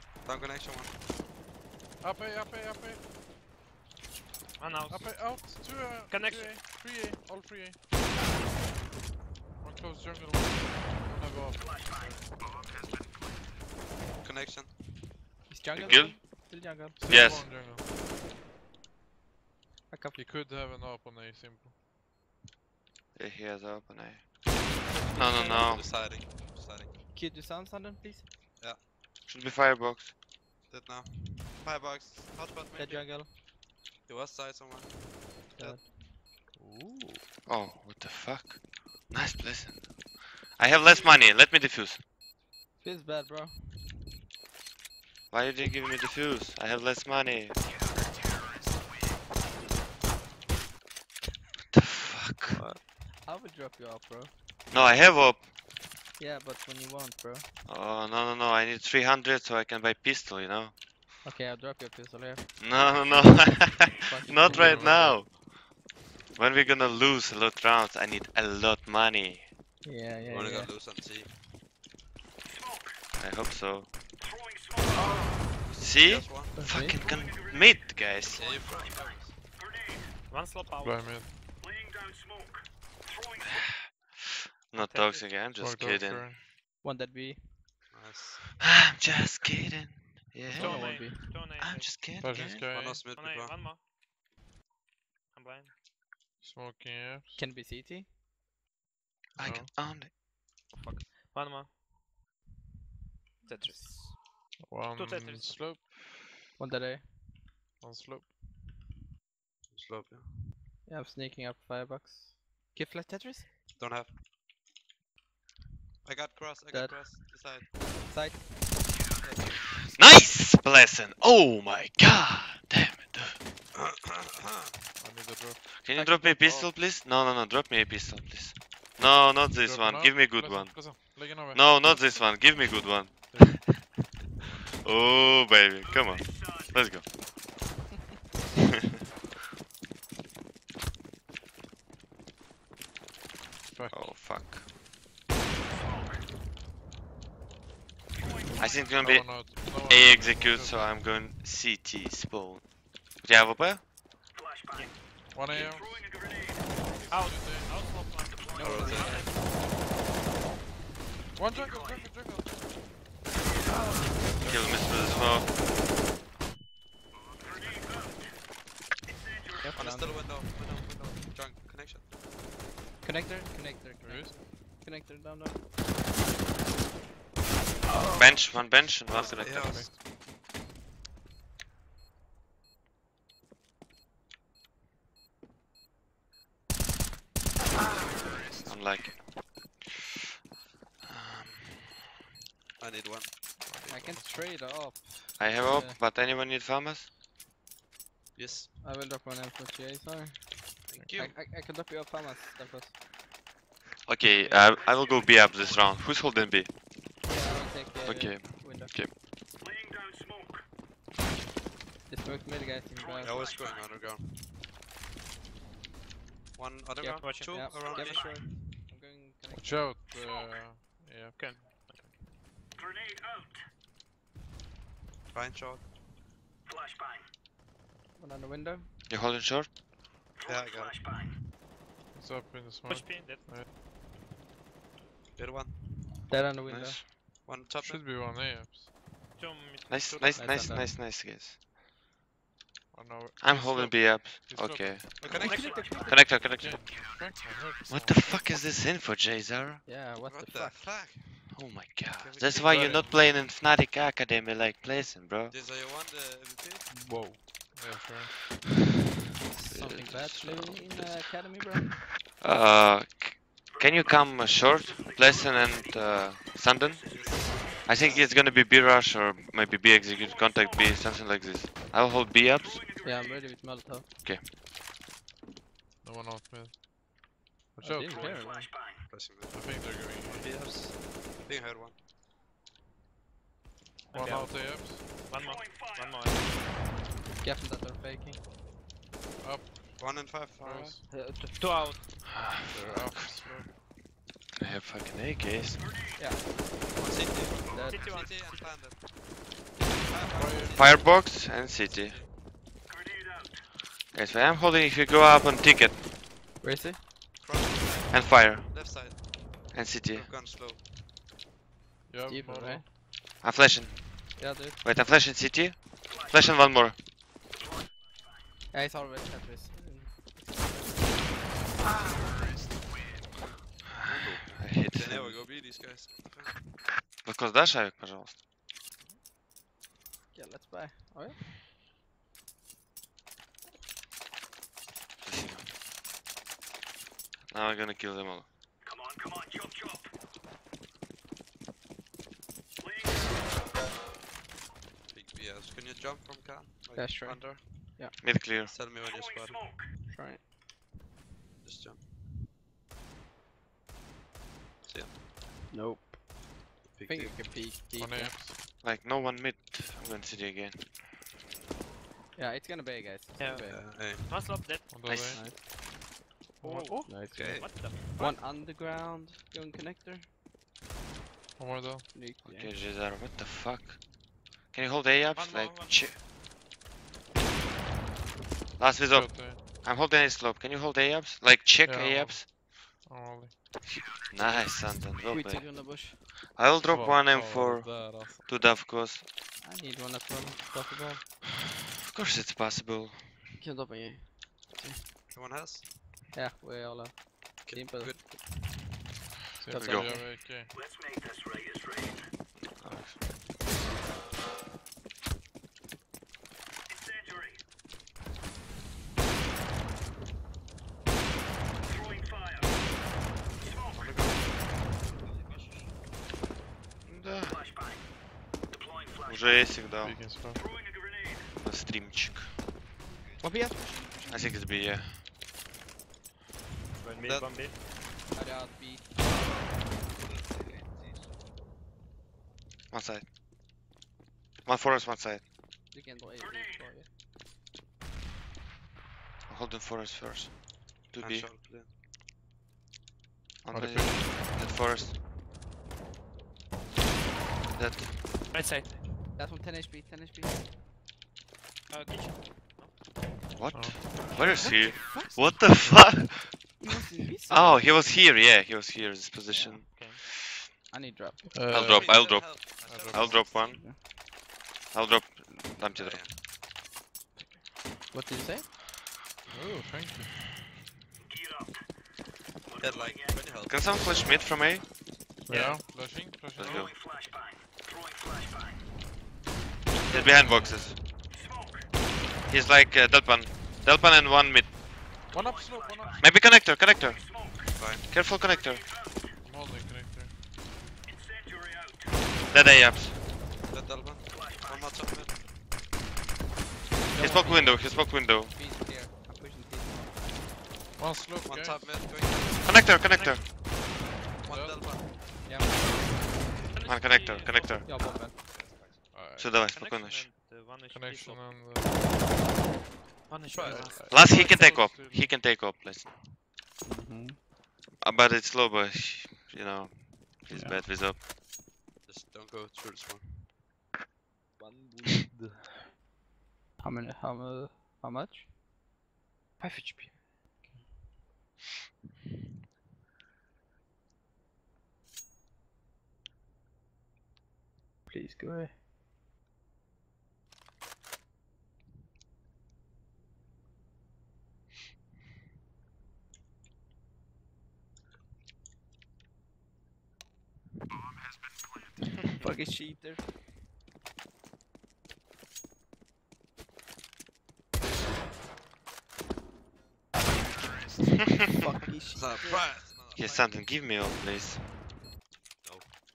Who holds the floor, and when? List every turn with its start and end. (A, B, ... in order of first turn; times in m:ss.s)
0:00.2-0:01.0 A
0:02.0-0:03.0 B
0:04.6-0:06.6 C
0:04.9-0:07.8 B
0:09.6-0:12.0 B
0:14.2-0:15.1 A
0:15.5-0:17.0 D
0:15.7-0:16.2 E
0:17.0-0:17.8 B
0:17.1-0:17.6 E
0:19.9-0:20.2 D
0:20.2-0:21.7 B
0:23.1-0:24.3 E
0:24.6-0:25.7 D
0:25.2-0:25.9 E
0:25.5-0:27.0 A
0:27.1-0:28.3 D
0:29.2-0:30.1 E
0:30.7-0:33.2 A
0:32.7-0:33.3 D
0:34.0-0:35.8 A
0:35.6-0:35.9 D
0:36.5-0:37.2 B
0:37.4-0:42.0 E
0:42.8-0:43.9 D
0:45.3-0:47.6 E
0:51.7-0:52.6 E
0:52.5-0:52.9 A
0:53.2-0:54.3 D
0:54.7-0:55.5 E
0:56.2-0:57.6 D
0:57.6-1:00.7 E
1:01.2-1:02.5 D
1:02.6-1:05.4 E
1:02.7-1:04.5 A
1:03.9-1:05.2 D
1:04.4-1:05.2 B
1:06.4-1:09.5 E
1:09.8-1:10.7 D
1:10.2-1:11.5 A
1:13.2-1:13.9 E
1:15.0-1:15.4 D
1:15.6-1:16.5 A
1:15.7-1:18.4 E
1:16.5-1:17.0 D
1:18.2-1:19.4 A
1:20.3-1:21.3 C
1:20.8-1:21.3 B
1:23.4-1:26.4 E
1:24.8-1:25.4 C
1:25.5-1:26.4 B
1:26.8-1:27.7 D
1:27.9-1:28.5 A
1:28.6-1:32.6 E
1:30.5-1:31.2 D
1:30.5-1:32.0 C
1:32.2-1:33.0 B
1:32.6-1:33.6 A
1:33.1-1:33.8 C
1:35.3-1:35.7 C
1:36.4-1:37.4 B
1:37.3-1:38.1 D
1:39.4-1:39.7 B
1:39.4-1:40.1 E
1:40.7-1:41.7 C
1:43.4-1:44.2 C
1:43.5-1:43.8 D
1:44.6-1:45.9 B
1:44.9-1:45.6 C
1:46.6-1:47.4 D
1:47.8-1:48.3 B
1:49.7-1:50.6 A
1:50.8-1:53.5 D
1:53.8-1:54.2 A
1:56.0-1:57.8 A
1:56.7-1:57.1 D
1:57.7-1:59.7 D
2:00.0-2:03.4 E
2:03.7-2:05.0 A
2:05.0-2:05.6 B
2:05.7-2:13.7 E
2:05.9-2:06.7 D
2:09.6-2:12.0 B
2:13.3-2:13.6 B
2:14.4-2:14.7 A
2:14.8-2:17.0 E
2:23.7-2:24.2 B
2:23.9-2:24.7 E
2:28.6-2:33.8 E
2:28.9-2:31.0 B
2:35.3-2:37.9 B
2:37.1-2:39.6 C
2:38.5-2:39.4 A
2:41.3-2:42.7 B
2:44.4-2:45.4 A
2:44.4-2:45.5 E
2:44.5-2:44.8 B
2:49.5-2:50.2 D
2:49.7-2:52.1 A
2:53.0-2:55.6 D
2:54.0-2:54.4 B
2:58.1-2:59.9 E
2:59.1-2:59.9 A
2:59.2-3:00.0 B
3:08.6-3:09.3 E
3:09.8-3:10.0 E
3:11.0-3:12.0 E
3:12.8-3:13.6 A
3:13.6-3:14.5 B
3:13.9-3:16.0 D
3:15.4-3:17.1 E
3:18.3-3:18.8 A
3:18.8-3:23.0 D
3:20.9-3:21.4 A
3:24.0-3:26.7 E
3:27.2-3:28.9 D
3:28.0-3:29.1 E
3:32.1-3:33.4 D
3:33.2-3:34.6 A
3:36.5-3:38.6 A
3:37.0-3:40.0 D
3:37.2-3:38.2 C
3:39.6-3:42.1 B
3:41.4-3:42.2 C
3:45.3-3:45.9 A
3:48.2-3:48.9 D
3:49.1-3:49.7 E
3:50.4-3:51.4 A
3:52.1-3:53.7 B
3:52.8-3:53.6 C
3:55.3-3:56.3 A
3:56.3-3:57.0 D
3:56.6-3:57.1 E
3:57.4-3:58.2 A
3:57.7-3:58.9 B
3:59.3-4:00.4 C
3:59.9-4:01.6 E
4:00.1-4:00.6 A
4:00.4-4:00.9 D
4:02.9-4:05.6 B
4:03.4-4:07.1 E
4:05.2-4:06.2 A
4:05.4-4:06.3 D
4:05.4-4:05.8 C
4:06.4-4:08.4 B
4:07.9-4:09.8 E
4:09.8-4:10.9 D
4:10.2-4:13.4 A
4:11.5-4:15.5 E
4:12.7-4:13.1 B
4:15.5-4:16.9 A
4:16.9-4:17.4 D
4:17.7-4:18.3 B
4:19.4-4:22.1 D
4:19.7-4:21.2 E
4:22.4-4:27.1 E
4:27.0-4:28.3 A
4:27.8-4:32.8 E
4:33.0-4:34.1 D
4:36.0-4:36.8 B
4:37.8-4:38.4 B
4:37.8-4:38.7 D
4:38.1-4:42.0 A
4:39.5-4:40.6 B
4:44.1-4:45.1 B
4:44.1-4:46.5 C
4:47.4-4:48.4 D
4:49.4-4:51.0 B
4:50.0-4:51.0 A
4:51.1-4:51.6 D
4:51.3-4:52.1 C
4:52.3-4:53.5 E
4:52.6-4:53.8 B
4:54.5-4:55.9 E
4:56.2-4:56.4 D
4:56.9-4:59.1 A
4:57.7-4:58.1 D
4:57.8-4:58.8 C
4:59.9-5:02.3 A
5:00.3-5:00.8 B
5:00.7-5:02.2 E
5:04.1-5:06.0 E
5:06.6-5:07.0 D
5:07.4-5:10.9 A
5:08.1-5:09.0 E
5:09.7-5:10.3 E
5:12.1-5:12.9 B
5:12.2-5:12.8 D
5:13.4-5:17.0 E
5:14.4-5:14.8 D
5:18.7-5:20.5 D
5:24.0-5:26.8 A
5:24.0-5:25.4 E
5:27.2-5:28.4 E
5:30.3-5:31.4 D
5:35.2-5:35.7 E
5:37.5-5:38.5 E
5:45.1-5:49.7 A
5:46.9-5:48.2 D
5:48.2-5:48.7 E
5:50.1-5:50.4 D
5:51.6-5:52.4 A
5:54.8-5:55.3 A
5:55.7-5:56.2 D
5:56.9-5:58.4 D
5:56.9-5:57.5 A
5:57.9-5:58.6 B
5:58.8-6:00.9 E
6:02.3-6:03.9 D
6:03.4-6:04.9 C
6:03.6-6:04.8 A
6:04.9-6:05.4 B
6:05.0-6:05.4 E
6:05.2-6:06.0 D
6:06.6-6:08.4 C
6:06.6-6:07.1 B
6:07.0-6:10.3 D
6:07.3-6:07.9 A
6:11.6-6:12.1 B
6:12.1-6:12.8 D
6:12.4-6:14.1 E
6:14.7-6:16.2 E
6:15.3-6:16.2 C
6:18.8-6:22.5 E
6:19.1-6:19.6 B
6:21.8-6:23.6 B
6:23.8-6:29.2 E
6:25.3-6:26.2 D
6:26.8-6:28.6 B
6:29.6-6:31.2 D
6:32.0-6:33.4 E
6:33.6-6:35.1 D
6:35.3-6:36.0 A
6:36.3-6:38.2 D
6:37.6-6:39.0 A
6:39.6-6:40.7 B
6:39.7-6:40.3 D
6:39.7-6:40.3 E
6:42.5-6:43.3 E
6:42.8-6:43.2 B
6:53.9-6:55.1 A
6:57.0-6:57.7 E
6:59.2-7:00.3 E
7:00.0-7:00.7 B
7:01.6-7:02.6 E
7:03.4-7:04.6 D
7:04.3-7:05.2 E
7:07.0-7:07.8 C
7:07.2-7:07.8 A
7:08.3-7:09.3 D
7:12.9-7:13.3 E
7:14.6-7:15.4 E
7:15.9-7:17.1 D
7:19.5-7:21.5 E
7:21.2-7:21.9 A
7:23.6-7:25.2 E
7:23.7-7:24.4 B
7:27.8-7:28.2 E
7:28.5-7:29.1 C
7:29.4-7:30.7 D
7:31.9-7:33.0 C
7:33.6-7:36.8 E
7:33.7-7:34.7 B
7:34.4-7:35.6 D
7:36.8-7:37.8 D
7:37.5-7:40.5 E
7:39.5-7:39.8 D
7:39.8-7:40.2 C
7:40.9-7:41.5 D
7:41.5-7:43.6 B
7:41.7-7:43.8 E
7:41.7-7:43.8 A
7:43.6-7:44.0 D
7:44.9-7:46.5 E
7:45.8-7:46.5 A
7:48.1-7:48.7 D
7:49.5-7:50.4 B
7:52.8-7:54.1 A
7:53.7-7:54.9 E
7:55.5-7:55.8 D
7:55.5-7:57.0 B
7:55.5-7:55.8 C
7:56.5-7:56.9 E
8:00.0-8:01.0 E
8:00.1-8:01.0 B
8:02.5-8:04.8 E
8:05.3-8:06.5 B
8:06.2-8:07.4 E
8:07.8-8:08.1 A
8:08.1-8:08.9 E
8:09.4-8:10.4 B
8:12.5-8:13.2 E
8:13.7-8:15.5 A
8:17.1-8:18.5 E
8:17.2-8:20.2 D
8:17.2-8:17.8 C
8:21.0-8:22.2 B
8:21.4-8:22.9 A
8:22.6-8:23.4 E
8:23.0-8:23.5 C
8:24.4-8:25.2 A
8:24.4-8:25.0 B
8:25.4-8:26.4 D
8:26.7-8:28.3 C
8:26.8-8:27.8 E
8:27.8-8:28.4 D
8:28.4-8:29.0 A
8:29.1-8:29.6 B
8:29.4-8:30.3 E
8:29.6-8:31.7 C
8:30.9-8:32.2 B
8:33.3-8:34.0 C
8:33.5-8:34.4 A
8:33.6-8:35.4 B
8:34.1-8:36.1 E
8:36.8-8:37.4 D
8:38.0-8:41.2 E
8:40.5-8:40.8 D
8:42.0-8:43.5 A
8:45.0-8:45.4 D
8:46.8-8:48.5 D
8:49.6-8:50.7 D
8:58.1-8:58.8 D
9:12.4-9:13.3 D
9:21.6-9:22.8 D
9:22.1-9:23.6 A
9:23.1-9:24.6 E
9:25.6-9:26.0 A